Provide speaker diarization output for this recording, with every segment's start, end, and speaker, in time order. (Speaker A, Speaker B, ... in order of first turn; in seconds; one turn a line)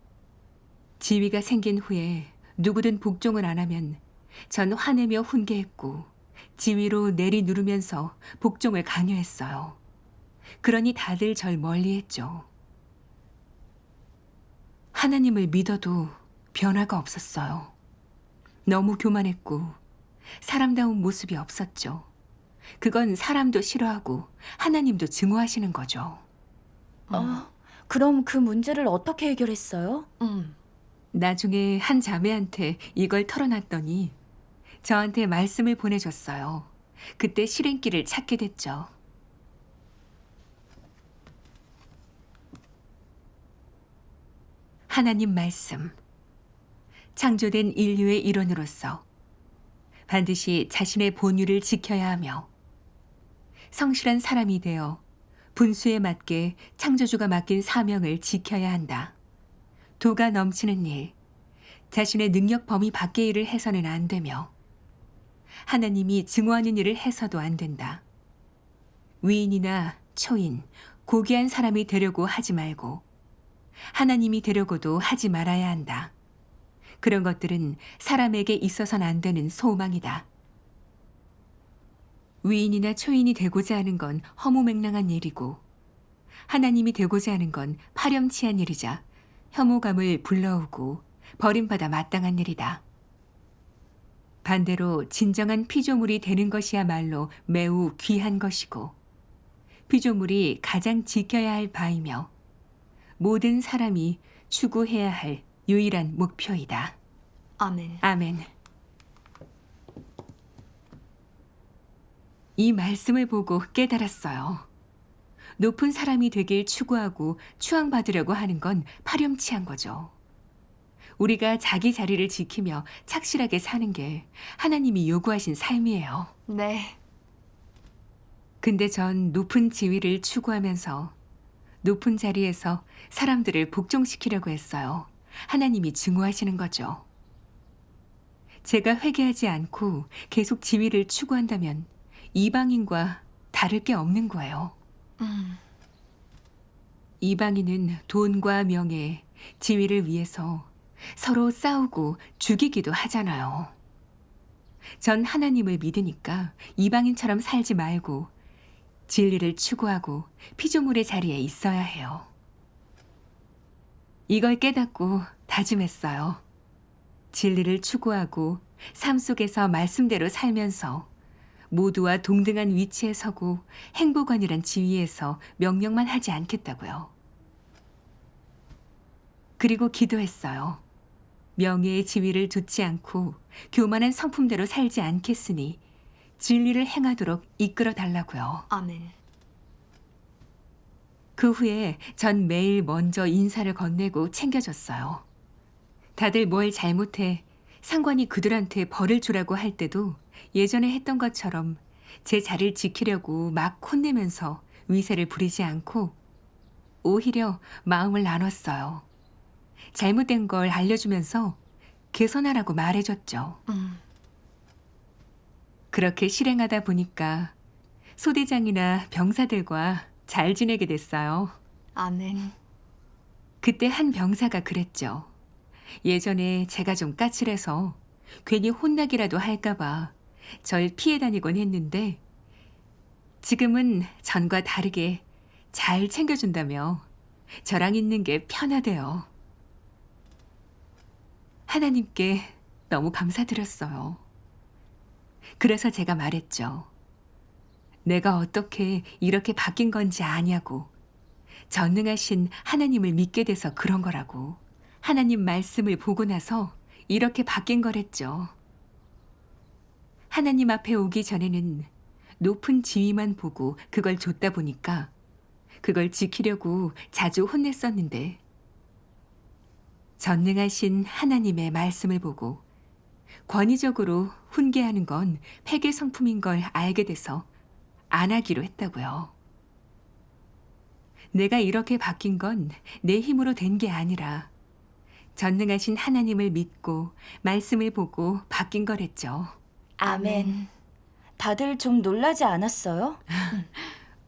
Speaker A: 1.0-9.8
Speaker A: 10.6-12.5
Speaker A: 14.9-17.7
Speaker A: 18.6-19.8
Speaker A: 20.4-22.1
Speaker A: 22.8-26.2
Speaker B: 27.1-27.4
Speaker C: 27.1-30.1
Speaker B: 30.2-30.6
Speaker A: 31.1-34.1
Speaker A: 34.8-38.9
Speaker A: 44.9-45.9
Speaker A: 47.1-49.0
Speaker A: 50.1-52.5
Speaker A: 53.7-55.0
Speaker A: 55.5-59.1
Speaker A: 60.0-61.1
Speaker A: 61.9-64.5
Speaker A: 65.7-68.0
Speaker A: 69.2-73.0
Speaker A: 73.9-76.1
Speaker A: 77.0-80.3
Speaker A: 82.4-85.6
Speaker A: 86.5-92.8
Speaker A: 94.4-98.9
Speaker A: 99.9-102.3
Speaker A: 103.2-107.0
Speaker B: 107.6-108.0
Speaker A: 108.0-108.5
Speaker A: 112.6-114.7
Speaker A: 115.6-120.1
Speaker A: 121.2-126.3
Speaker B: 126.5-127.0
Speaker A: 128.6-131.1
Speaker A: 131.8-137.0
Speaker A: 138.6-144.7
Speaker B: 145.2-145.6
Speaker A: 147.2-153.7
Speaker A: 155.0-158.3
Speaker A: 159.1-162.3
Speaker A: 164.3-166.4
Speaker A: 167.3-171.1
Speaker A: 171.7-177.1
Speaker A: 179.6-180.8
Speaker A: 181.6-185.8
Speaker A: 186.4-188.7
Speaker B: 188.7-189.1
Speaker A: 191.3-195.2
Speaker A: 196.2-206.2
Speaker A: 207.0-209.1
Speaker A: 209.9-211.6
Speaker A: 212.1-213.6
Speaker B: 213.7-214.0
Speaker A: 215.9-217.5
Speaker A: 218.2-221.6
Speaker B: 221.9-222.5
Speaker A: 223.6-225.3
Speaker A: 226.0-232.2
Speaker A: 233.4-237.1
Speaker A: 237.6-239.3
Speaker A: 241.7-244.2
Speaker A: 245.6-246.9
Speaker A: 248.0-250.9
Speaker A: 251.7-258.5
Speaker A: 260.3-261.9
Speaker A: 262.4-265.1
Speaker A: 265.8-268.4
Speaker A: 270.2-272.6
Speaker A: 273.5-277.5
Speaker A: 278.1-279.3
Speaker A: 281.3-284.5
Speaker A: 285.4-289.5
Speaker C: 290.0-290.6
Speaker B: 290.1-290.7
Speaker C: 291.4-293.4